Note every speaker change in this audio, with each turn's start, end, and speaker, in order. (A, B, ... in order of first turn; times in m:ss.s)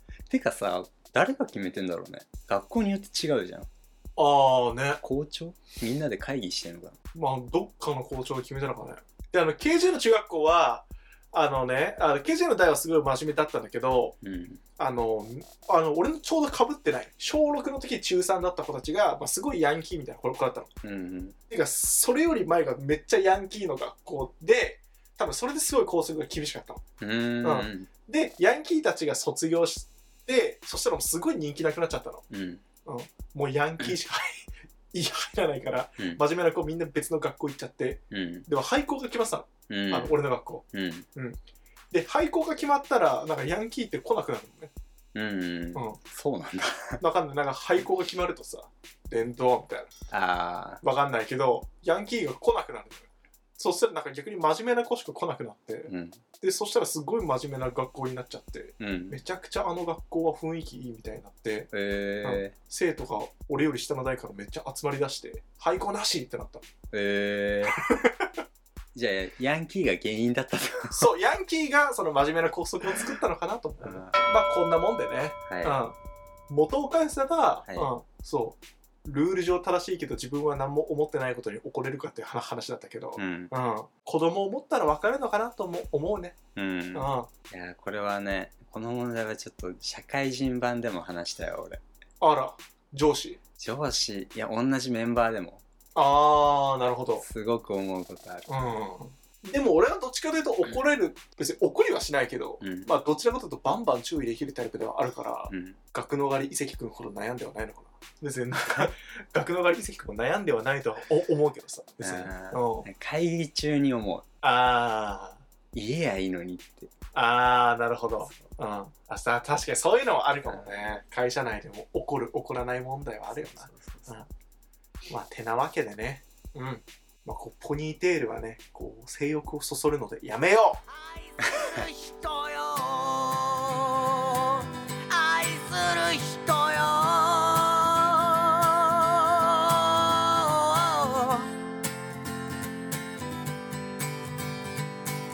0:00.3-0:03.7 A
0:04.2-0:05.0 B
0:05.0-0:07.0 A
0:07.1-0:14.2 B
0:14.2-0:14.6 A
0:14.8-0:20.7 B
0:20.8-0:21.4 A
0:21.5-0:26.8 B
0:27.0-0:27.9 A
0:27.4-0:32.2 B
0:32.3-0:32.6 A
0:32.8-0:41.4 B
0:38.1-0:38.5 A
0:39.7-0:40.2 A
0:40.7-0:41.1 A
0:41.9-0:44.7 B
0:45.1-0:47.0 A
0:47.0-0:49.9 B
0:50.1-0:50.8 A
0:50.8-0:53.1 B
0:53.6-1:01.7 B
0:55.9-0:56.2 A
0:58.8-0:59.2 A
1:01.7-1:02.5 A
1:02.2-1:06.6 B
1:06.9-1:07.8 A
1:07.8-1:08.3 B
1:08.9-1:11.1 A
1:10.9-1:16.0 B
1:13.8-1:14.2 A
1:15.5-1:15.8 A
1:16.5-1:26.4 B
1:17.7-1:17.9 A
1:23.2-1:23.5 A
1:26.6-1:31.8 A
1:26.9-1:27.3 B
1:32.2-1:33.4 B
1:33.6-1:35.6 A
1:36.0-1:37.2 B
1:37.2-1:38.5 A
1:38.5-1:52.9 B
1:42.6-1:42.9 A
1:45.5-1:45.8 A
1:48.6-1:48.9 A
1:52.0-1:54.2 A
1:54.4-1:55.4 B
1:55.7-1:56.9 A
1:57.1-2:04.3 B
2:00.4-2:00.7 A
2:03.3-2:04.2 A
2:05.1-2:10.8 B
2:10.9-2:21.5 C